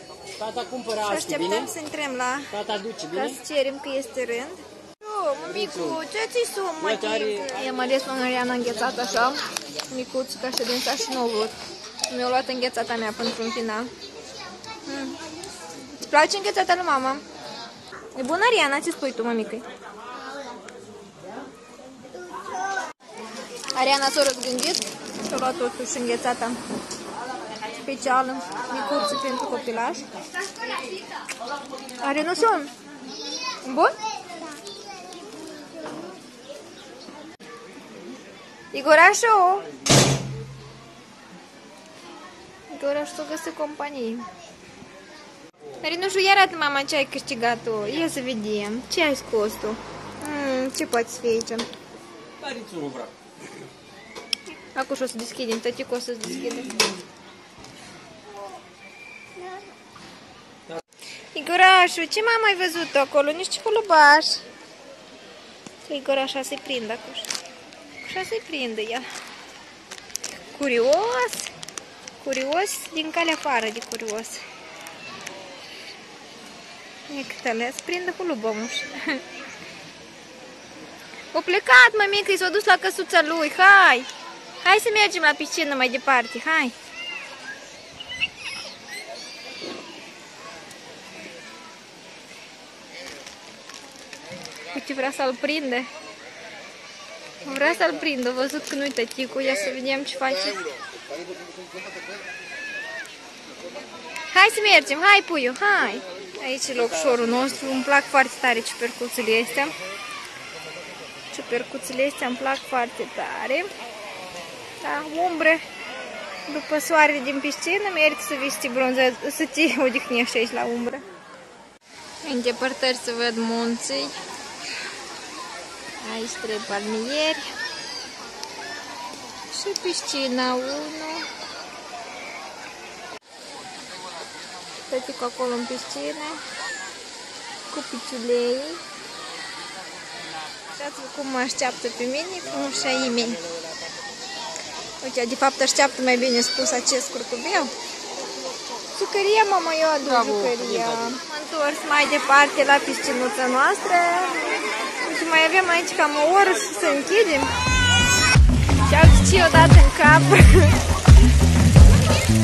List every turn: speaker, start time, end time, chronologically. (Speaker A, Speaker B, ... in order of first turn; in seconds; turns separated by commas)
Speaker A: 0.4-1.7, Speaker B: 1.0-2.6, Speaker A: 2.5-3.3, Speaker B: 3.1-11.6, Speaker A: 5.6-6.0, Speaker A: 6.8-7.5, Speaker B: 12.1-13.9, Speaker B: 14.8-15.2, Speaker B: 16.0-17.2, Speaker B: 18.1-19.7, Speaker B: 23.7-26.6, Speaker B: 27.8-30.1, Speaker B: 32.0-32.7, Speaker B: 33.6-34.0, Speaker B: 38.7-39.7, Speaker B: 42.7-44.3, Speaker B: 45.8-51.7, Speaker A: 52.4-53.1, Speaker B: 54.8-56.8, Speaker B: 61.3-64.4, Speaker B: 65.8-67.3, Speaker B: 68.0-69.1, Speaker B: 70.5-71.5, Speaker B: 72.2-74.4, Speaker B: 77.1-79.2, Speaker B: 81.3-84.1, Speaker B: 84.6-86.7, Speaker B: 94.7-95.9, Speaker B: 97.4-100.8, Speaker B: 104.3-109.8, Speaker B: 111.3-113.7, Speaker B: 114.8-115.6, Speaker B: 116.5-121.0, Speaker B: 122.2-124.2, Speaker B: 126.0-127.5, Speaker B: 129.5-131.3, Speaker B: 134.9-136.4, Speaker B: 137.7-138.8, Speaker B: 140.7-143.4, Speaker B: 145.0-147.7, Speaker B: 148.9-157.5, Speaker B: 158.8-160.8